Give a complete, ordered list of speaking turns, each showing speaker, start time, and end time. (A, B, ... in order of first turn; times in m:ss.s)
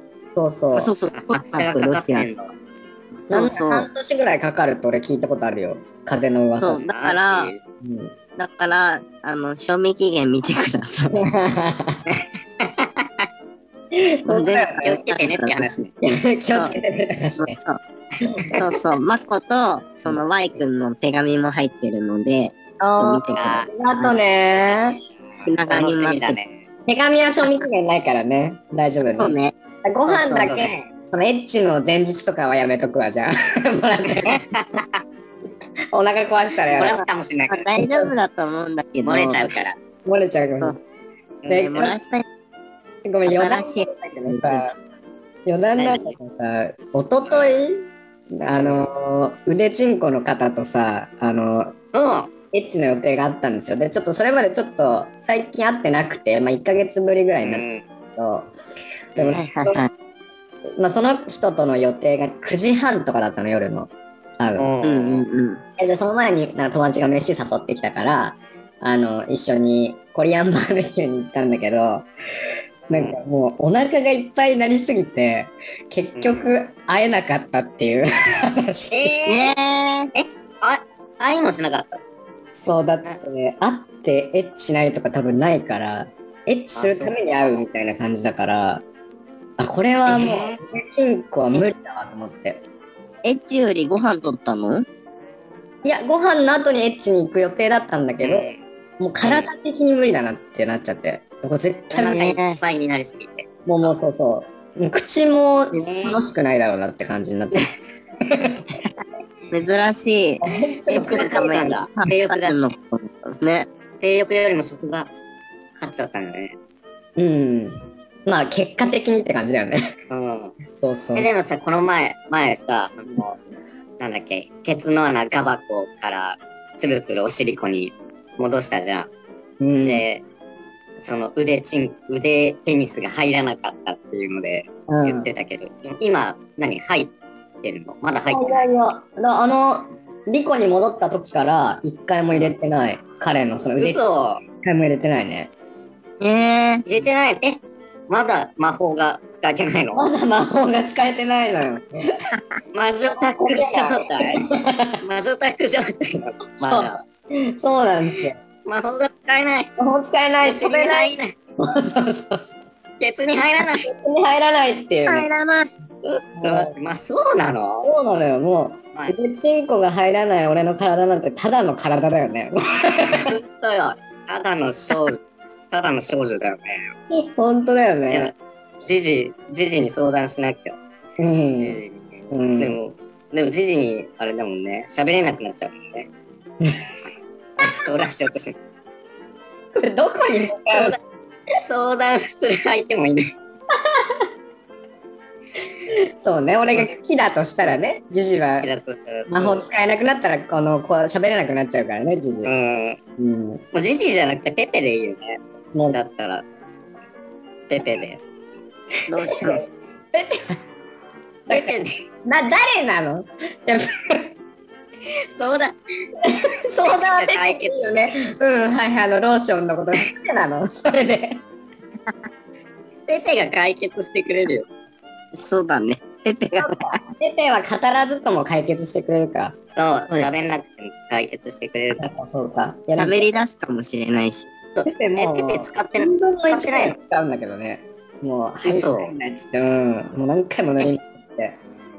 0:00.3-0:00.9 A
0:00.7-0:02.3 B
0:01.1-0:02.5 C
0:03.3-0:06.8 A
0:03.3-0:03.9 B
0:06.6-0:07.5 B
0:06.9-0:07.6 C
0:07.8-0:08.1 A
0:08.4-0:11.1 B
0:11.0-0:12.0 A
0:12.6-0:13.1 C
0:13.9-0:14.9 A
0:14.3-0:15.8 B
0:14.8-0:15.9 C
0:16.0-0:17.6 A
0:17.4-0:17.8 B
0:18.6-0:24.1 B
0:22.8-0:25.0 A
0:23.4-0:23.7 C
0:25.5-0:26.4 B
0:25.7-0:26.6 C
0:26.9-0:34.4 A
0:29.2-0:29.6 B
0:30.1-0:30.6 B
0:30.3-0:30.7 C
0:34.5-0:35.0 C
0:35.9-0:37.0 A
0:36.7-0:37.7 C
0:37.5-0:39.5 B
0:37.8-0:38.1 A
0:39.0-0:39.8 C
0:40.0-0:40.8 A
0:41.4-0:41.9 C
0:41.5-0:42.0 A
0:41.5-0:42.3 B
0:43.0-0:44.7 A
0:43.2-0:44.8 B
0:45.5-0:51.8 A
0:45.8-0:46.2 C
0:47.3-0:47.6 C
0:48.6-0:48.9 C
0:51.9-0:52.3 C
0:52.5-0:57.6 A
0:57.4-0:57.8 C
0:58.2-0:58.5 A
0:59.2-0:59.8 A
0:59.3-0:59.9 B
1:00.8-1:04.7 A
1:04.6-1:05.3 C
1:04.8-1:05.6 B
1:05.8-1:12.1 A
1:12.9-1:19.1 A
1:12.9-1:13.2 C
1:16.2-1:16.5 C
1:18.9-1:19.5 C
1:19.3-1:20.1 B
1:20.2-1:22.0 C
1:22.6-1:28.8 A
1:26.8-1:27.6 C
1:29.6-1:32.6 A
1:30.1-1:30.6 C
1:33.2-1:34.8 B
1:35.8-1:38.5 A
1:38.2-1:38.6 C
1:39.0-1:42.4 A
1:39.2-1:39.5 C
1:41.9-1:43.5 C
1:42.1-1:42.6 B
1:43.7-1:47.7 A
1:45.8-1:46.2 C
1:48.2-1:48.6 A
1:49.5-1:53.7 B
1:50.4-1:51.7 A
1:50.9-1:52.6 C
1:54.0-1:55.1 C
1:55.8-1:56.6 C
1:57.2-1:59.8 A
2:00.1-2:00.6 C
2:00.7-2:01.3 A
2:01.2-2:03.4 C
2:04.0-2:09.1 C
2:09.6-2:10.0 A
2:09.8-2:10.2 C
2:11.0-2:18.7 C
2:14.9-2:15.3 A
2:18.3-2:24.0 A
2:23.8-2:24.4 C
2:24.6-2:25.5 A
2:26.2-2:26.8 B
2:26.9-2:30.1 C
2:29.9-2:31.9 A
2:32.7-2:34.4 C
2:33.1-2:35.0 A
2:35.0-2:37.0 C
2:36.7-2:38.4 A
2:38.7-2:39.7 C
2:39.8-2:42.5 A
2:40.4-2:41.3 C
2:43.0-2:43.9 C
2:43.6-2:45.3 A
2:45.1-2:45.7 B
2:46.0-2:47.9 C
2:46.4-2:46.7 A
2:47.8-2:53.3 A
2:53.0-2:55.2 C
2:55.7-2:56.9 C
2:57.1-2:58.3 A
2:58.1-3:00.8 C
3:01.2-3:01.8 A
3:01.5-3:06.1 C
3:02.3-3:02.8 A
3:07.6-3:08.6 C
3:09.8-3:11.0 A
3:10.7-3:11.0 C
3:11.7-3:13.3 C
3:13.7-3:14.2 A
3:15.9-3:18.7 A
3:18.6-3:19.6 C
3:19.3-3:22.5 A
3:22.4-3:23.0 C
3:23.2-3:23.6 A
3:23.7-3:25.4 C
3:25.9-3:26.4 C
3:27.7-3:28.2 C
3:29.1-3:29.6 B
3:29.3-3:30.6 A
3:31.5-3:34.3 A
3:31.5-3:31.9 C
3:35.3-3:35.8 C
3:36.7-3:41.4 A
3:36.8-3:37.8 C
3:43.1-3:44.7 C
3:45.4-3:47.0 B
3:46.6-3:49.6 A
3:49.8-3:52.1 C
3:52.0-3:53.3 A
3:53.0-3:54.5 B
3:54.8-3:57.0 C
3:54.8-4:01.6 A
3:58.6-3:59.1 C